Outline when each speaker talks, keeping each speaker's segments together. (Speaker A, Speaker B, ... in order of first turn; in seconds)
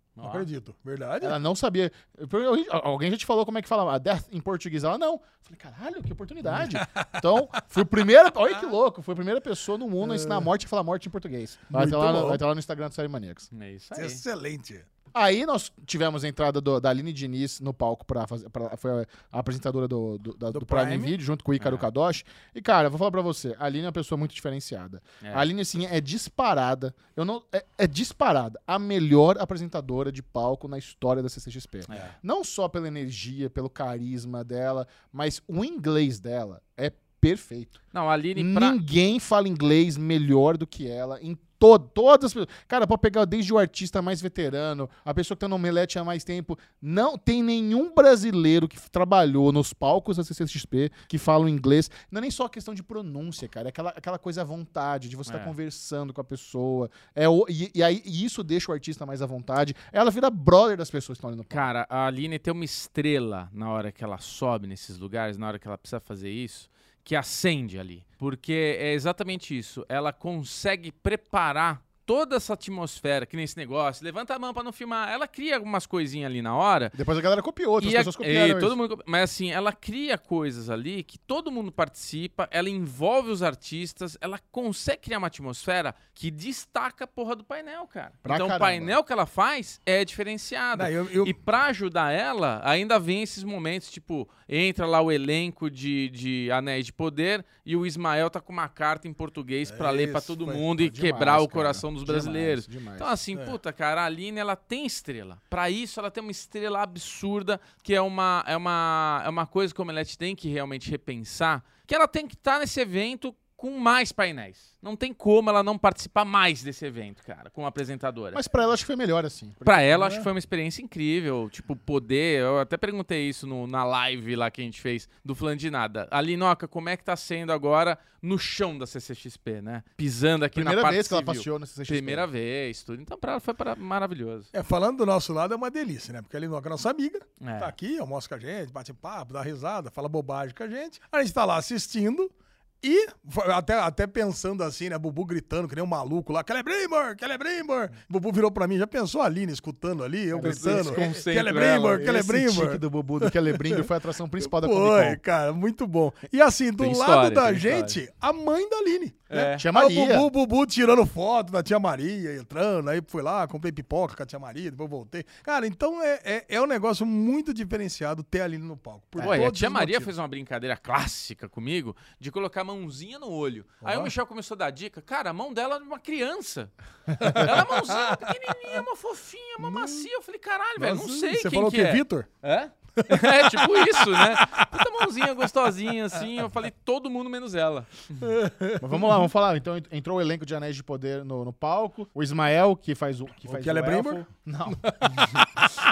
Speaker A: 0.1-0.5, 13.5-14.2, 21.6-21.9, 31.9-32.1, 37.9-38.8, 55.3-55.5, 61.5-77.0, 77.8-118.4, 119.6-134.5, 137.4-137.7, 150.4-152.0, 156.8-158.0, 159.3-159.6, 169.2-188.2
Speaker B: 0.2-1.4, 6.5-7.3, 10.0-10.5, 11.7-12.4, 13.9-14.8, 20.5-21.2, 90.7-91.3, 99.7-100.6, 119.9-120.3, 134.5-142.3, 142.8-153.9, 154.4-170.1, 173.8-174.1, 177.2-178.8, 179.6-180.1, 180.8-182.3, 183.0-185.5, 188.2-189.3, 193.4-195.7
Speaker C: 1.2-13.5, 15.1-37.8, 38.4-61.7, 76.9-78.7, 88.2-88.9, 100.7-103.1, 118.3-119.9, 130.5-132.3, 150.3-155.2, 159.5-160.3, 169.2-169.4, 188.8-195.6